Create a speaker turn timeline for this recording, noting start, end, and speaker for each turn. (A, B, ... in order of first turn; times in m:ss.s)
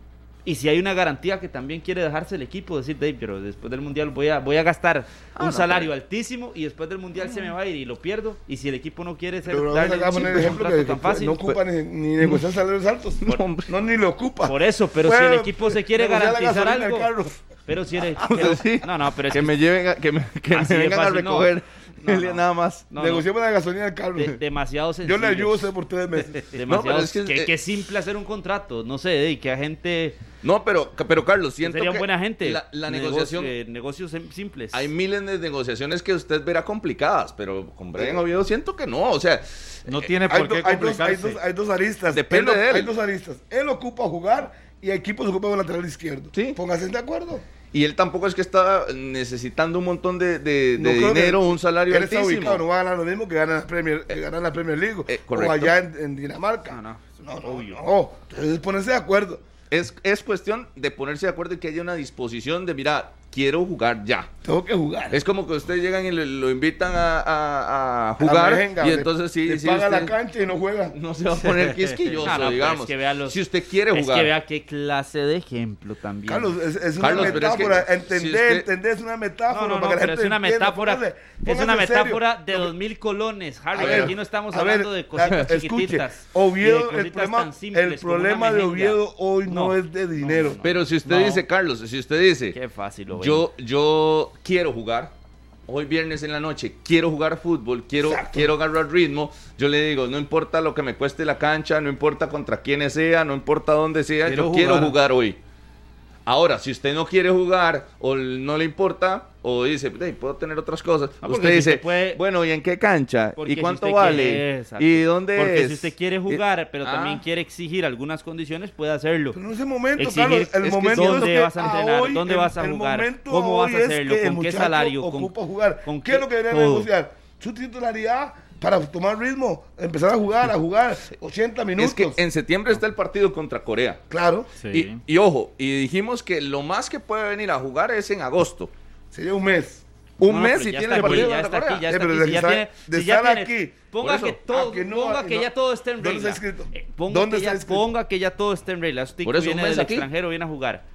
0:00.4-0:11.5 A
0:05.4-0:05.9 B
0:09.5-0:17.4 C
0:13.2-0:13.7 B
0:14.4-0:17.1 A
0:17.7-0:19.5 A
0:18.2-0:22.9 B
0:20.5-0:23.3 A
0:23.0-0:24.4 C
0:24.1-0:25.7 A
0:25.0-0:26.5 C
0:26.5-0:30.2 A
0:26.6-0:27.5 B
0:30.4-0:33.5 B
0:31.6-0:34.9 A
0:34.7-0:40.1 B
0:38.0-0:38.2 C
0:39.9-0:41.4 D
0:40.3-0:47.4 C
0:42.1-0:42.9 B
0:46.3-0:46.6 B
0:47.7-0:52.6 B
0:50.8-0:59.4 C
0:55.1-0:55.8 B
0:56.7-0:57.8 A
0:59.7-1:04.3 B
1:04.4-1:05.2 C
1:05.1-1:10.2 B
1:08.2-1:11.0 C
1:10.9-1:14.3 B
1:11.4-1:12.2 D
1:12.2-1:17.6 A
1:16.3-1:22.7 C
1:17.0-1:18.7 B
1:19.5-1:31.4 A
1:23.7-1:30.6 C
1:23.8-1:24.1 B
1:30.6-1:32.6 B
1:32.5-1:33.5 A
1:33.1-1:35.1 B
1:35.7-1:45.4 B
1:38.0-1:38.5 C
1:44.2-1:45.0 D
1:46.3-1:57.2 B
1:51.2-1:52.2 A
1:53.4-1:59.4 A
1:59.3-2:12.2 C
2:00.0-2:05.3 A
2:00.9-2:01.2 D
2:05.8-2:06.9 A
2:11.8-2:14.0 B
2:14.1-2:14.5 C
2:14.6-2:15.0 D
2:14.7-2:18.7 B
2:19.1-2:19.8 C
2:20.2-2:21.9 B
2:20.3-2:30.8 A
2:21.0-2:21.3 C
2:21.9-2:23.7 C
2:24.0-2:24.4 B
2:24.5-2:27.9 C
2:29.2-2:30.1 B